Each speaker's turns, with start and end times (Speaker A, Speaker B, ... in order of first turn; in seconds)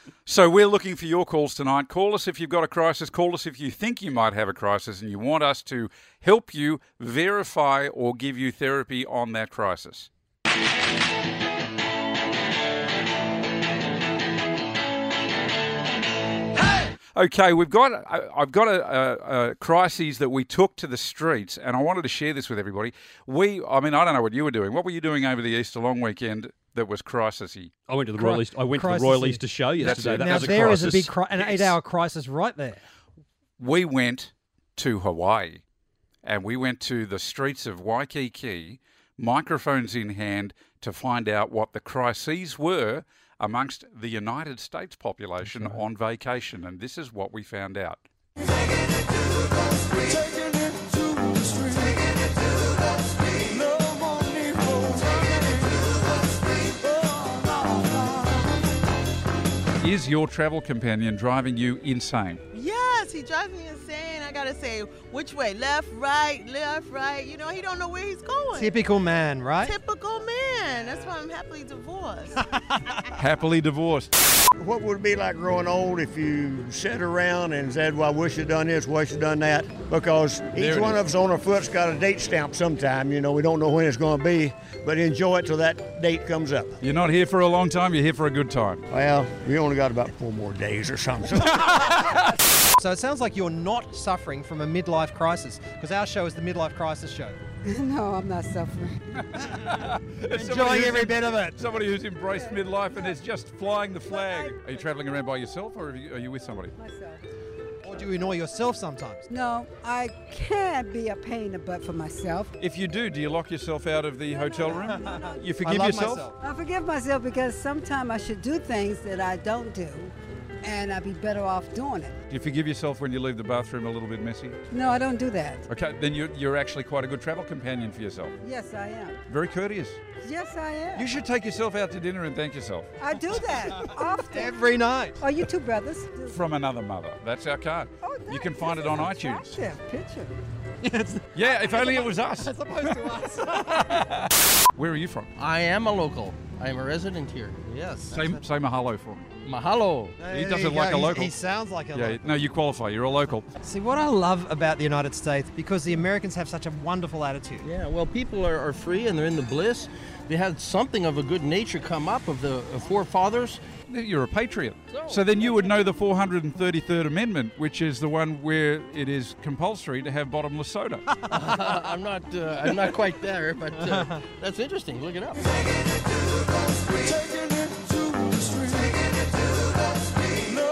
Speaker A: 0.2-10.1, 17.1-27.7, 29.8-31.7, 33.6-35.6, 36.2-48.0, 59.8-62.4, 73.1-74.1, 80.5-81.0, 86.8-88.8, 99.1-106.7, 112.6-116.3, 122.3-124.6, 125.7-128.3, 129.3-130.0, 130.9-133.4, 136.2-139.6, 141.3-145.3, 148.1-149.2, 150.2-151.3, 151.9-153.5, 163.9-171.1
Speaker B: 27.9-31.3
Speaker C: 28.1-32.8, 45.4-45.8, 68.5-69.7, 72.6-73.0, 92.8-97.4, 100.3-101.6, 107.8-109.3, 114.7-116.4, 133.7-135.2, 140.8-143.8, 150.2-152.3, 153.6-157.7
Speaker D: 62.5-68.7, 69.6-72.4
Speaker E: 74.6-86.8, 88.9-91.8
Speaker F: 97.6-99.0, 102.2-103.2, 104.0-104.9, 106.8-107.2, 109.3-112.5, 114.3-115.6, 116.4-122.2, 124.7-125.6, 128.4-129.2, 130.2-131.1, 133.0-134.6, 135.2-136.4, 138.0-140.4
Speaker G: 145.4-148.4, 149.4-150.2, 157.6-163.6, 164.9-165.5, 171.3-175.4